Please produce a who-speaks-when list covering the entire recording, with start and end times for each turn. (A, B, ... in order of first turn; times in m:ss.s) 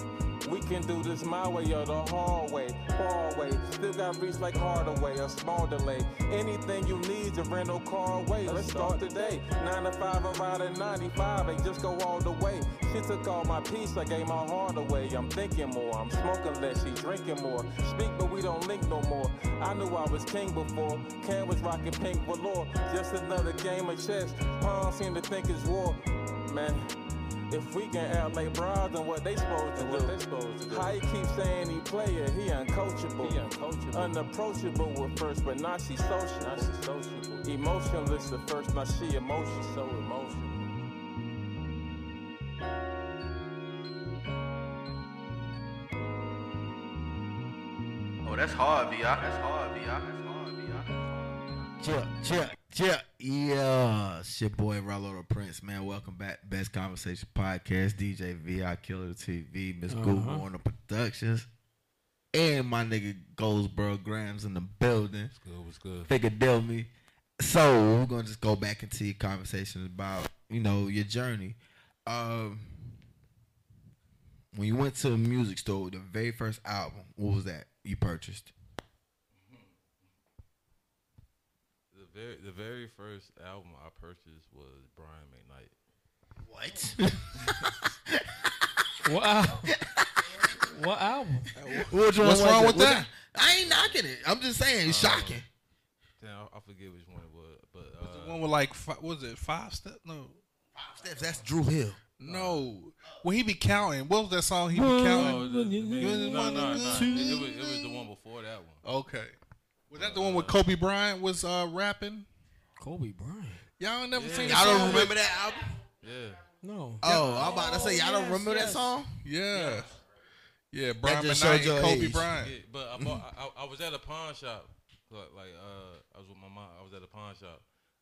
0:00.4-0:26.9 A
0:08.5-0:09.0 B
0:27.5-0:36.8 A
0:29.8-0:31.0 B
0:33.2-0:34.1 B
0:36.4-0:37.4 B
0:37.4-0:40.6 A
0:48.2-0:51.7 C
0:51.8-1:01.5 D
0:59.9-1:00.5 E
1:02.3-1:05.3 D
1:05.3-1:06.1 B
1:06.1-1:13.0 D
1:14.5-1:18.5 D
1:19.3-1:19.8 B
1:21.9-1:25.7 B
1:26.5-1:27.4 D
1:28.2-1:28.5 D
1:29.0-1:29.7 E
1:29.7-1:30.4 D
1:30.6-1:31.5 E
1:31.6-1:35.5 D
1:31.7-1:33.0 F
1:33.5-1:34.0 B
1:34.8-1:35.4 B
1:36.2-1:38.4 B
1:38.0-1:40.4 F
1:40.8-1:42.0 D
1:42.2-1:45.5 F
1:42.2-1:42.7 B
1:44.7-1:47.4 E
1:45.2-1:48.8 B
1:46.0-1:47.9 F
1:48.8-1:49.4 F
1:49.9-1:52.3 F
1:50.0-1:50.6 B
1:52.8-1:53.6 E
1:53.8-1:55.2 F
1:54.2-1:55.2 B
1:54.4-1:55.7 D
1:56.0-1:56.4 B
1:56.6-1:58.9 E
1:57.0-1:59.2 D
1:57.0-1:57.9 B
1:59.2-1:59.9 F
1:59.5-2:00.0 B
2:00.7-2:02.5 F
2:01.0-2:02.3 D
2:02.4-2:07.6 B
2:03.0-2:03.2 D